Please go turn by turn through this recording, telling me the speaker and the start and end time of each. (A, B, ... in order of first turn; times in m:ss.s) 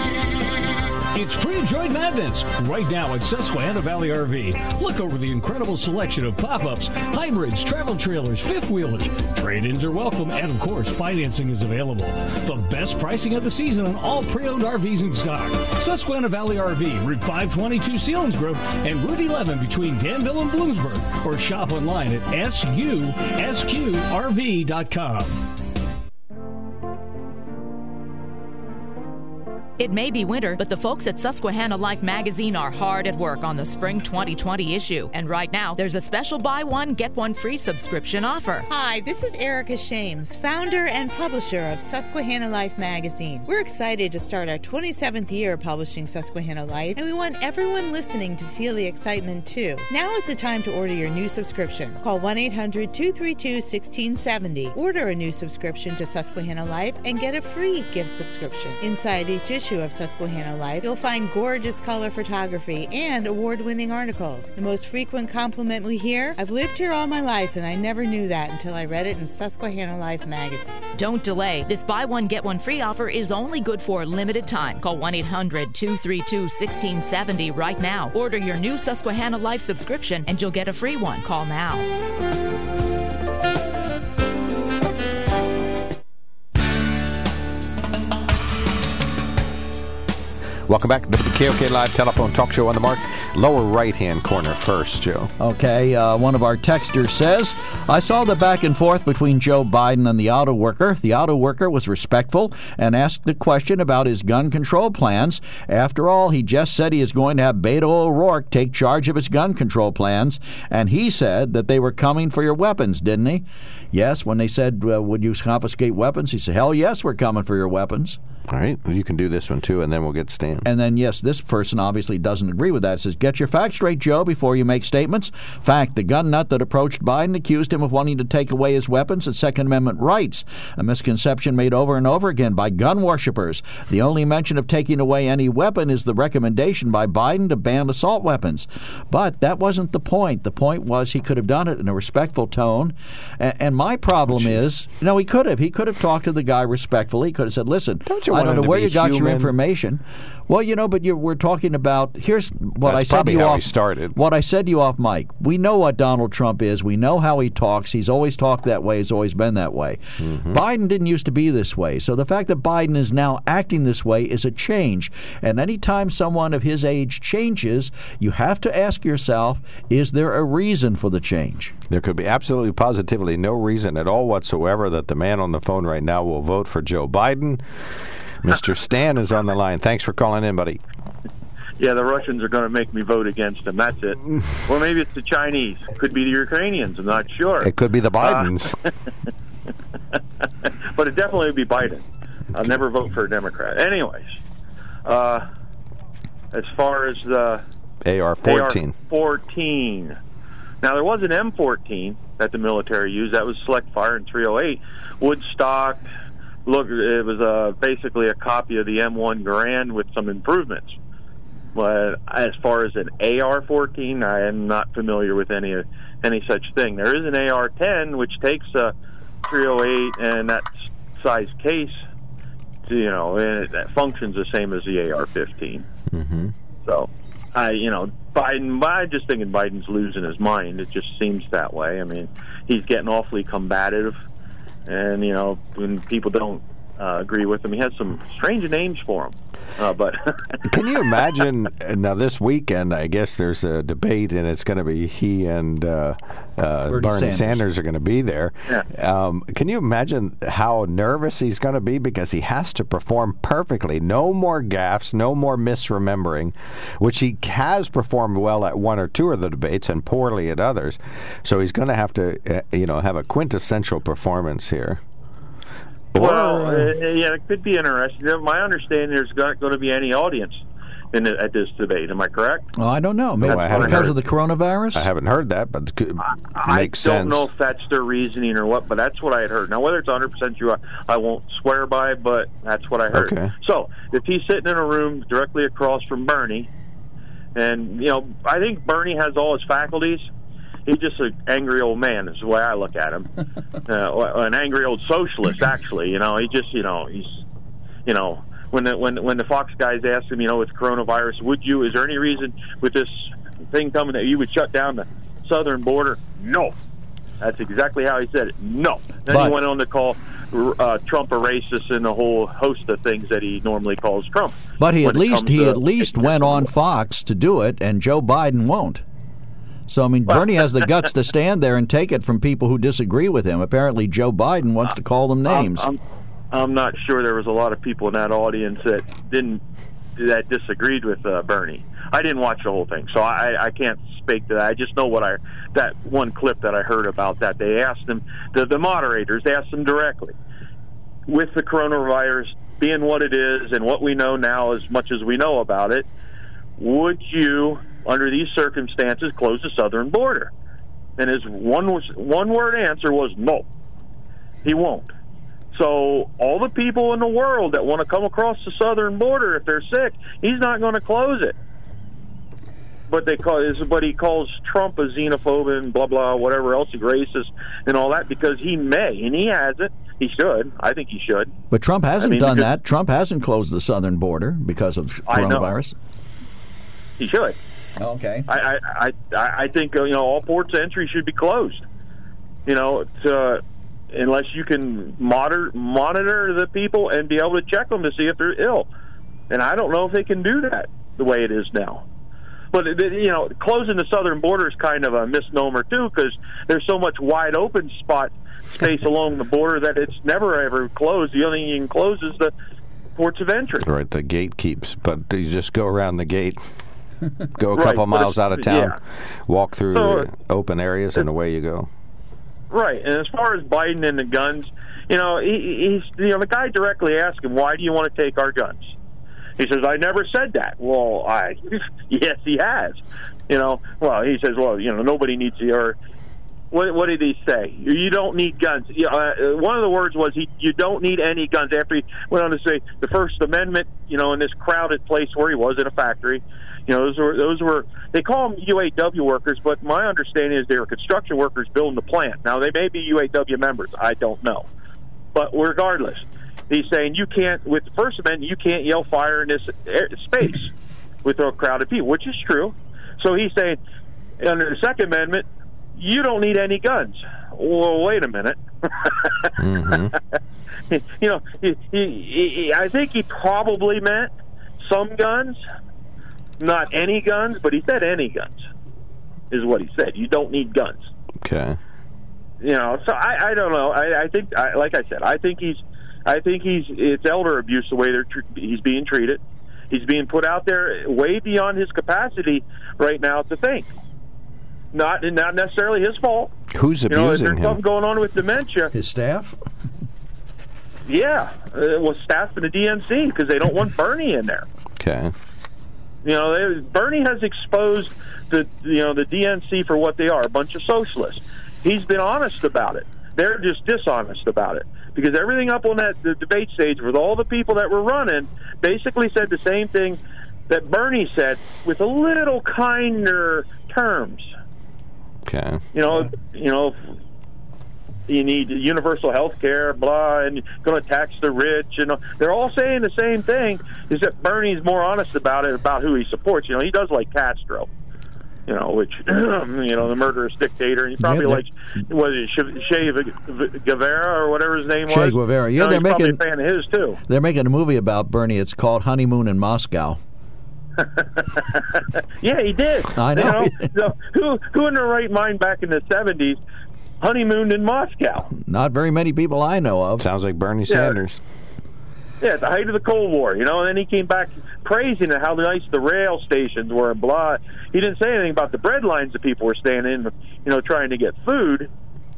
0:01.1-0:25.4 A
0:29.8-0:38.7 B
0:38.7-1:10.7 C
1:11.0-1:21.9 B
1:30.7-1:35.3 D
1:35.4-1:58.2 E
1:58.5-2:00.7 D
2:00.6-2:40.0 E
2:24.3-2:24.6 D
2:28.0-2:29.5 D
2:32.8-2:34.2 D
2:40.2-2:40.6 D
2:40.5-2:51.7 E
2:51.9-2:57.6 D
2:58.4-3:00.8 D
3:01.8-3:08.5 F
3:07.6-3:08.8 D
3:10.6-3:14.4 F
3:15.0-3:15.4 F
3:16.5-3:17.6 F
3:18.0-3:19.0 D
3:18.4-3:20.2 F
3:20.8-3:26.0 F
3:26.6-3:31.0 F
3:31.7-3:38.9 F
3:39.4-3:42.0 F
3:42.9-3:45.8 F
3:46.1-3:46.5 D
3:46.8-3:54.2 F
3:54.9-4:00.6 F
4:00.7-4:25.0 D
4:06.9-4:07.6 E
4:26.1-4:26.9 D
4:26.2-4:30.6 F
4:31.1-4:32.6 F
4:32.8-4:35.1 E
4:33.4-4:34.2 D
4:33.4-4:34.1 F
4:34.9-4:37.5 D
4:36.2-4:46.7 F
4:43.1-4:43.5 D
4:47.5-4:50.3 F
4:50.8-4:53.3 F
4:53.8-4:57.4 F
4:58.0-5:06.7 F
5:07.4-5:16.7 F
5:09.3-5:09.6 E
5:14.8-5:19.0 E
5:19.9-5:25.9 E
5:20.3-5:20.9 F
5:25.4-5:26.0 F
5:26.5-5:29.6 F
5:30.2-5:40.3 F
5:41.3-5:46.1 F
5:46.8-5:50.5 F
5:51.2-5:53.7 F
5:54.6-5:55.1 F
5:55.7-6:01.5 F
6:03.1-6:11.5 F
6:11.7-6:15.9 E
6:12.2-6:12.7 F
6:15.3-6:15.8 F
6:17.2-6:17.6 F
6:18.0-6:18.5 E
6:18.5-6:21.8 F
6:22.6-6:28.9 F
6:29.5-6:32.0 F
6:32.7-6:42.5 F
6:43.2-6:43.9 F
6:43.8-6:46.6 D
6:47.5-6:51.9 D
6:47.7-6:49.0 F
6:49.9-6:50.3 F
6:52.7-6:58.9 F
6:59.6-7:06.0 F
7:06.7-7:24.7 F
7:25.3-7:30.7 F
7:31.2-7:33.8 F
7:34.4-7:35.4 F
7:36.0-7:39.5 F
7:39.6-7:40.1 D
7:40.9-7:45.6 F
7:46.6-7:48.7 F
7:49.5-7:51.1 F
7:51.4-7:51.8 D
7:52.6-7:59.4 F
7:59.9-8:03.9 F
8:04.9-8:06.5 F
8:06.7-8:07.8 D
8:07.1-8:08.9 F
8:08.9-8:09.6 E
8:11.1-8:14.6 F
8:15.0-8:15.3 D
8:16.2-8:34.5 F
8:35.4-8:35.8 D
8:35.9-8:37.0 F
8:38.3-8:47.9 F
8:48.7-8:57.2 F
8:51.2-8:51.6 E
8:55.1-8:56.4 E
8:57.3-9:00.2 E
9:01.0-9:06.6 F
9:03.1-9:03.9 E
9:07.2-9:08.5 F
9:08.6-9:10.2 E
9:10.2-9:11.4 D
9:10.9-9:11.2 F
9:12.4-9:21.9 F